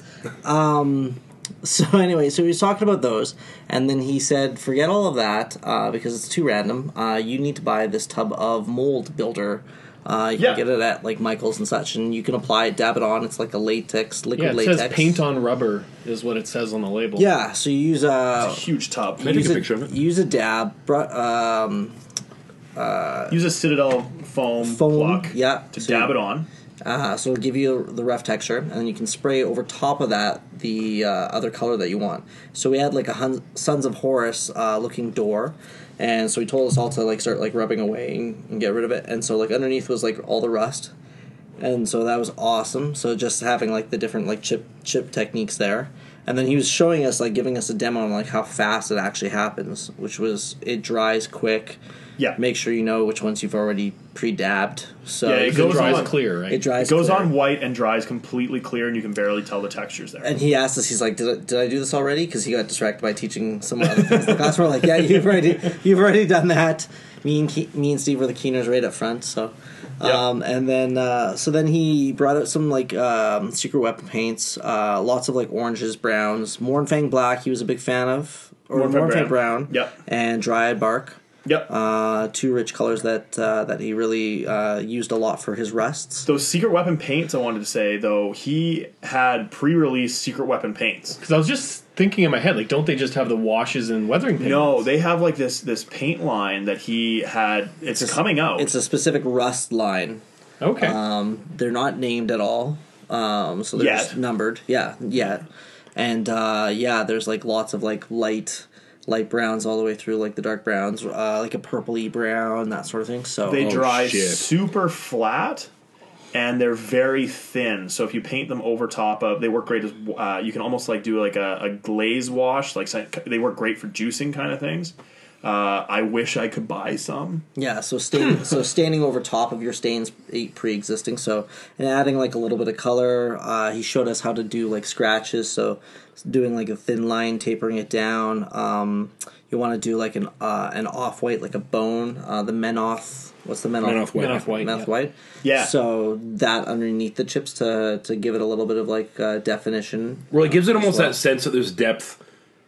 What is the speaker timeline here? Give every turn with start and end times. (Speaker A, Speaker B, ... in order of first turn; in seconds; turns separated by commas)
Speaker A: 0.4-15.2, Speaker B: 14.3-17.3, Speaker A: 17.1-18.6, Speaker C: 18.4-19.3, Speaker D: 19.2-19.9, Speaker A: 19.2-22.0, Speaker A: 22.7-23.4, Speaker C: 23.3-26.5, Speaker A: 24.6-26.1, Speaker A: 26.8-40.9, Speaker A: 41.6-51.8, Speaker A: 52.4-57.3, Speaker C: 55.2-56.2, Speaker B: 55.5-56.6, Speaker C: 56.8-60.3, Speaker A: 60.2-86.3, Speaker C: 78.7-79.9, Speaker C: 81.4-81.7, Speaker C: 86.2-91.2, Speaker B: 91.2-94.8, Speaker C: 94.4-98.7, Speaker A: 97.9-100.2, Speaker B: 100.6-101.0, Speaker A: 100.8-113.7, Speaker C: 103.7-104.2, Speaker C: 113.5-115.7, Speaker D: 113.6-114.5, Speaker C: 116.3-127.4, Speaker A: 127.5-151.2, Speaker D: 143.8-144.4, Speaker B: 144.1-144.9, Speaker C: 145.4-145.7, Speaker D: 150.3-152.2